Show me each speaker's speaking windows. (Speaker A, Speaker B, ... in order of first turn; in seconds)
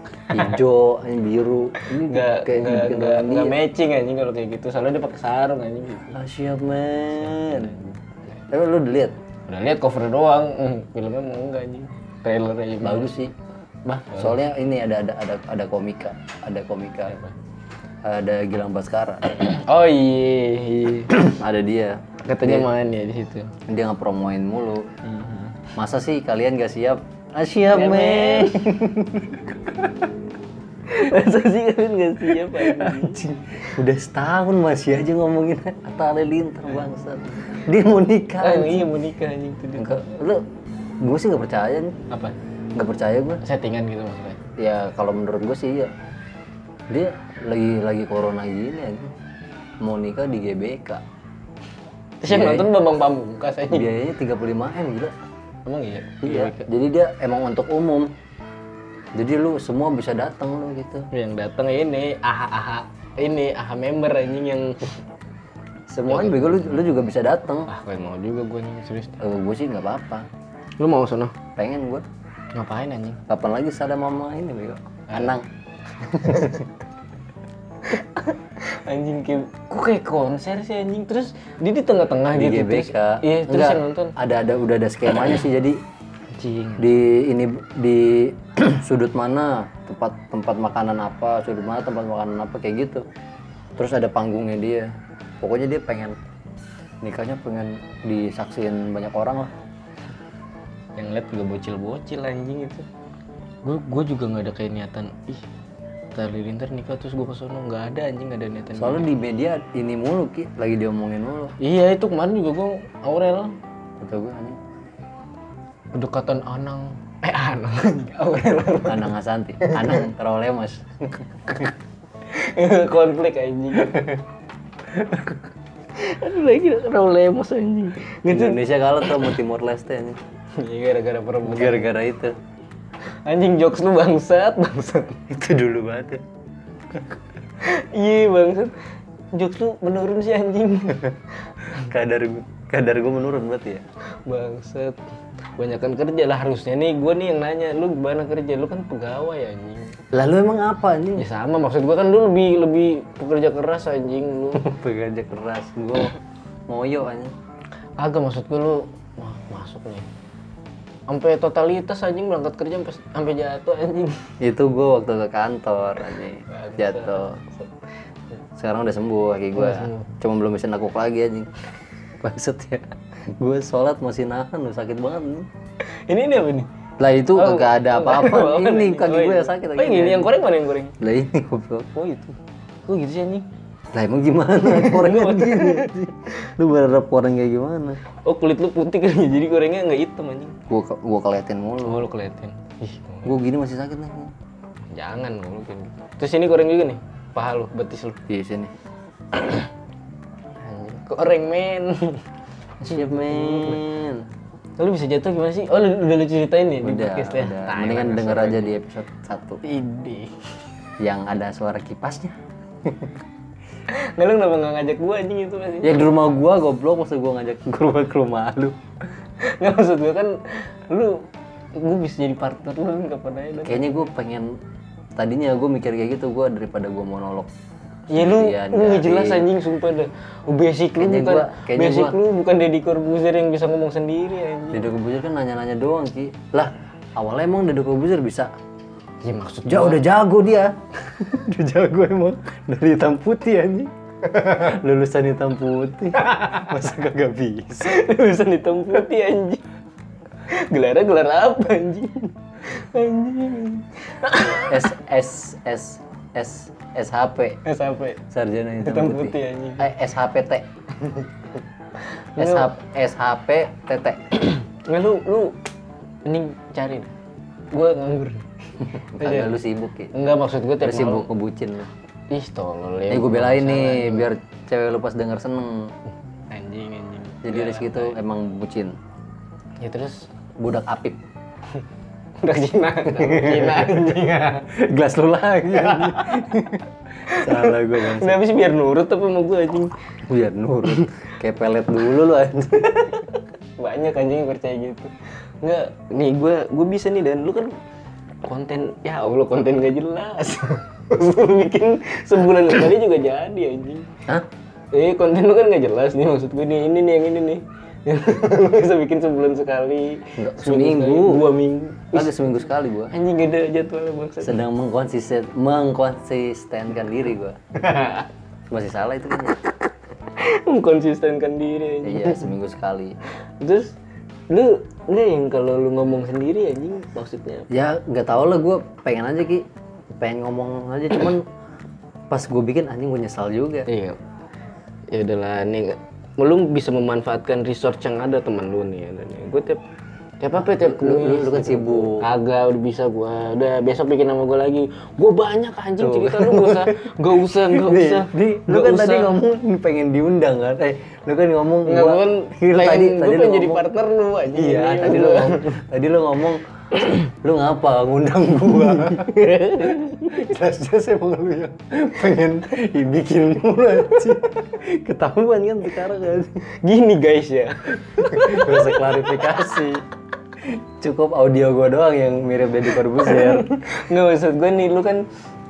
Speaker A: 0.3-3.5, 6.1-7.8, 8.5-9.1, 12.8-13.3, 14.1-17.2, 18.0-19.2, 21.3-22.7, 23.7-24.9, 25.8-29.5, 32.3-38.9, 39.8-40.4, 41.0-42.0, 42.8-43.4, 44.6-45.9, 46.9-49.1, 49.8-51.0, 52.2-52.7, 53.7-55.1, 56.2-58.1, 59.1-61.1, 65.9-67.7, 69.2-70.3, 71.5-72.0, 73.3-75.4, 76.0-76.7, 82.3-85.8, 86.8-93.0, 93.8-96.2, 97.0-99.5, 108.8-111.5, 114.0-114.6, 118.8-121.7, 128.3-130.2, 131.4-132.4, 135.3-136.2, 141.7-143.8, 150.1-151.2, 154.6-156.1, 156.7-157.3, 164.4-167.4, 168.6-171.5, 172.2-175.5, 177.0-180.3, 181.0-181.9, 183.9-188.0, 190.7-192.1, 193.2-194.3, 198.3-198.7, 202.8-204.3, 206.8-209.6, 211.0-213.2, 215.8-218.8, 223.6-224.6, 225.2-227.5, 228.1-229.4, 231.0-232.2, 234.7-238.5, 239.7-248.0, 254.5-257.6, 258.3-260.7, 262.4-264.3, 269.0-270.1, 270.8-271.9, 273.1-275.9, 277.4-278.9, 280.6-281.2, 283.1-288.4, 290.3-293.3, 310.4-311.5, 312.1-313.1, 314.4-317.6, 318.7-319.7, 322.0-323.2, 327.7-329.6, 330.2-331.4, 332.3-333.9, 340.6-342.3, 346.0-353.9, 354.5-366.6, 368.1-370.0, 370.6-373.8
Speaker B: 1.8-6.2, 7.4-7.9, 9.5-13.1, 13.9-14.4, 19.3-21.4, 22.2-23.5, 25.0-25.7, 27.7-28.6, 30.9-33.7, 38.4-40.0, 42.1-42.3, 43.4-44.4, 52.2-53.9, 55.6-56.7, 61.1-64.9, 66.1-66.8, 67.7-69.2, 70.8-71.3, 72.5-73.2, 77.9-84.2, 86.3-86.9, 101.0-102.9, 103.6-105.5, 106.1-109.0, 111.6-113.5, 115.9-120.0, 122.3-124.2, 124.9-125.4, 125.9-129.3, 130.6-131.9, 133.2-135.2, 137.6-138.8, 139.3-141.2, 144.2-145.0, 145.6-150.0, 151.2-154.7, 158.0-160.1, 161.1-164.3, 166.5-167.7, 169.6-170.1, 176.1-176.7, 177.4-181.0, 181.9-182.3, 182.9-183.5, 184.6-186.0, 188.2-190.6, 191.8-193.4, 194.9-198.2, 199.4-199.7, 200.6-202.2, 202.8-203.8, 204.8-208.8, 209.6-210.5, 213.9-216.3, 219.4-223.9, 228.1-234.8, 239.2-240.0, 247.8-249.6, 250.5-254.9, 257.6-258.2, 258.8-259.9, 262.4-262.7, 264.8-265.6, 266.2-267.1, 267.7-269.6, 270.1-271.3, 272.3-274.3, 276.5-278.2, 279.8-280.3, 282.4-284.7, 287.3-289.9, 293.8-297.8, 298.4-304.1, 304.9-312.4, 313.1-314.6, 317.8-318.3, 320.3-322.5, 323.6-323.9, 324.5-327.7, 333.9-334.2, 335.1-339.8, 340.4-349.4, 351.8-355.8, 359.0-360.5, 366.7-369.4, 373.1-375.2